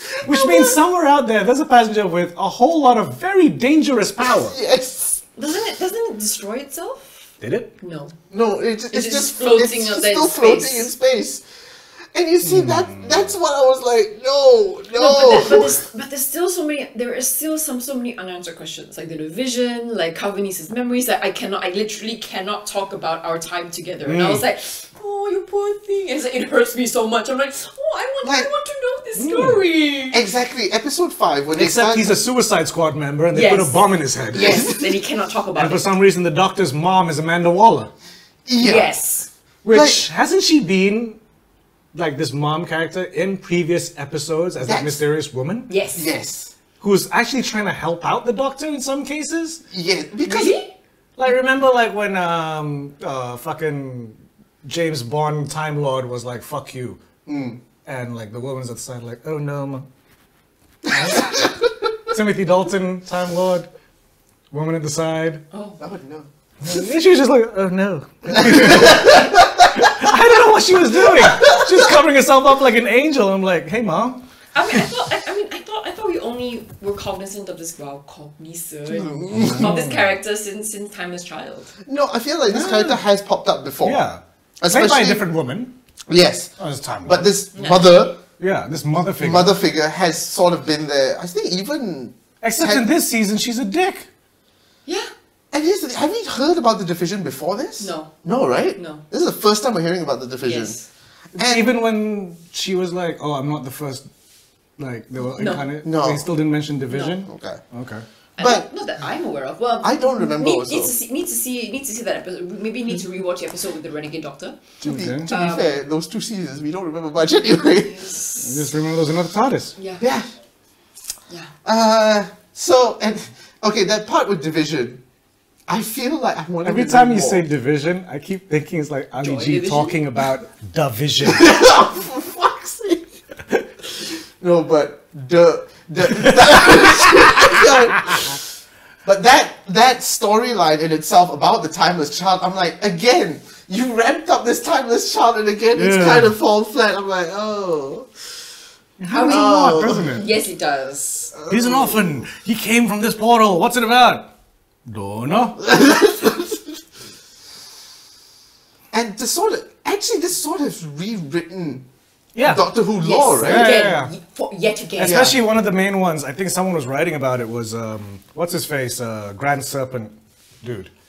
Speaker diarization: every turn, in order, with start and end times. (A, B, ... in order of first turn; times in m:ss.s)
0:00.2-0:04.6 A
0:00.3-0:00.7 B
0:04.2-0:05.2 C
0:05.4-0:07.2 B
0:07.4-0:07.7 A
0:07.8-0:08.1 B
0:08.3-0:11.4 C
0:08.9-0:10.9 B
0:12.1-0:15.8 C
0:12.4-0:13.3 A
0:14.9-0:30.2 B
0:24.0-0:24.4 A
0:28.2-0:28.5 C
0:29.2-0:29.6 A
0:30.1-0:32.2 C
0:31.6-0:34.7 A
0:33.3-0:35.9 B
0:34.3-0:35.0 C
0:35.6-0:37.9 A
0:38.5-0:38.9 C
0:38.6-0:39.3 B
0:39.6-0:41.2 A
0:39.7-0:40.1 C
0:41.9-0:45.7 A
0:44.6-0:45.0 C
0:45.7-0:46.1 B
0:45.9-0:46.6 C
0:46.8-0:49.6 A
0:49.7-0:50.6 C
0:50.2-0:50.7 B
0:51.2-0:57.0 A
0:57.2-0:57.6 C
0:57.8-0:59.9 A
1:00.9-1:01.4 A
1:01.2-1:01.5 C
1:02.1-1:03.7 A
1:04.5-1:05.4 A
1:05.5-1:05.8 B
1:05.8-1:06.3 C
1:06.6-1:14.2 A
1:08.3-1:10.1 C
1:11.0-1:11.8 C
1:14.5-1:21.7 B
1:18.9-1:19.7 C
1:19.3-1:20.1 A
1:21.8-1:24.0 C
1:22.5-1:23.0 A
1:23.8-1:25.7 A
1:24.6-1:25.2 C
1:26.1-1:26.5 C
1:26.6-1:27.3 A
1:27.0-1:28.2 C
1:27.5-1:28.0 B
1:28.4-1:29.5 A
1:29.2-1:32.8 C
1:32.4-1:34.1 A
1:34.9-1:35.1 B
1:35.5-1:40.8 C
1:37.8-1:38.1 B
1:38.8-1:39.0 B
1:40.4-1:40.9 B
1:41.4-1:41.8 C
1:41.4-1:44.0 A
1:44.8-1:48.0 A
1:45.4-1:45.7 B
1:45.8-1:46.2 C
1:46.9-1:47.2 B
1:47.2-1:47.6 C
1:48.4-1:54.6 B
1:48.4-1:48.7 C
1:49.8-1:50.9 C
1:54.8-1:58.1 C
1:54.8-1:55.3 A
1:55.3-1:55.8 B
1:57.8-1:58.6 B
1:58.4-1:59.8 A
1:59.8-2:00.0 B
2:00.0-2:00.3 C
2:01.6-2:05.0 C
2:05.7-2:07.5 C
2:06.6-2:11.6 A
2:09.2-2:10.0 B
2:11.2-2:13.1 C
2:14.0-2:18.4 C
2:16.1-2:18.3 A
2:19.0-2:28.1 C
2:25.8-2:26.3 A
2:29.0-2:30.3 A
2:29.1-2:31.3 B
2:29.2-2:30.1 C
2:31.3-2:32.2 C
2:31.5-2:34.3 A
2:34.9-2:35.6 A
2:35.6-2:36.6 C
2:38.9-2:41.8 C
2:42.3-2:42.7 A
2:42.4-2:43.8 C
2:43.0-2:45.3 B
2:43.4-2:44.1 A
2:45.0-2:50.9 A
2:45.0-2:45.4 C